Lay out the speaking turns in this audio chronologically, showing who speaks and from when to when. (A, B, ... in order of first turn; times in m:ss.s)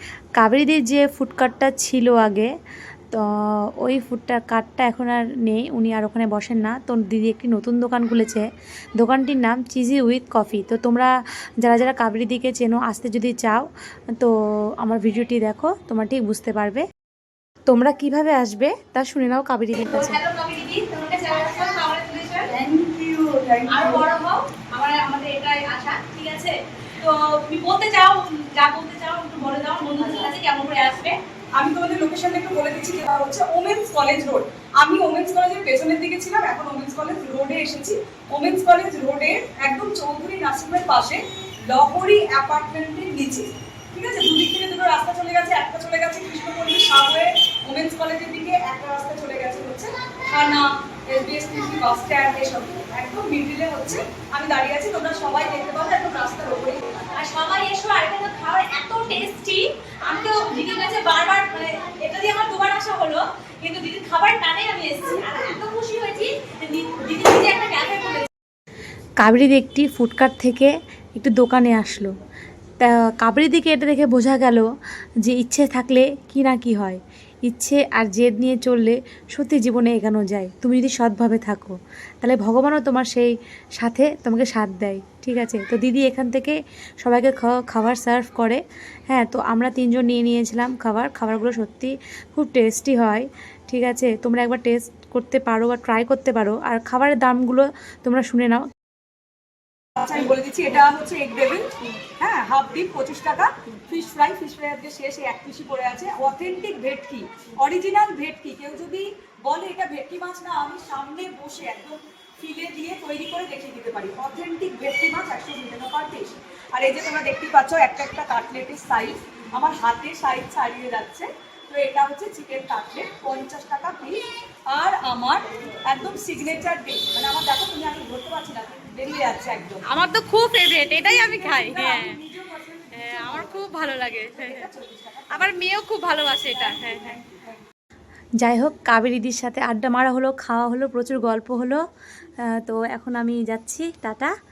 0:00.4-0:02.5 A
0:03.1-0:16.8 A
0:17.7-0:20.2 A
0:19.8-0:22.5 B
0:22.5-0:24.1 C
0:23.7-0:31.2 B
0:30.0-0:30.3 C
0:31.6-0:57.0 C
0:57.1-1:08.3 B
1:09.2-1:12.1 A
1:12.8-1:14.7 A
1:15.2-1:38.7 A
1:40.0-2:09.8 C
2:09.8-2:12.2 B
2:10.8-2:15.6 C
2:12.9-2:14.7 B
2:15.3-2:17.2 B
2:16.4-2:17.6 C
2:18.4-2:21.8 A
2:22.5-2:24.3 A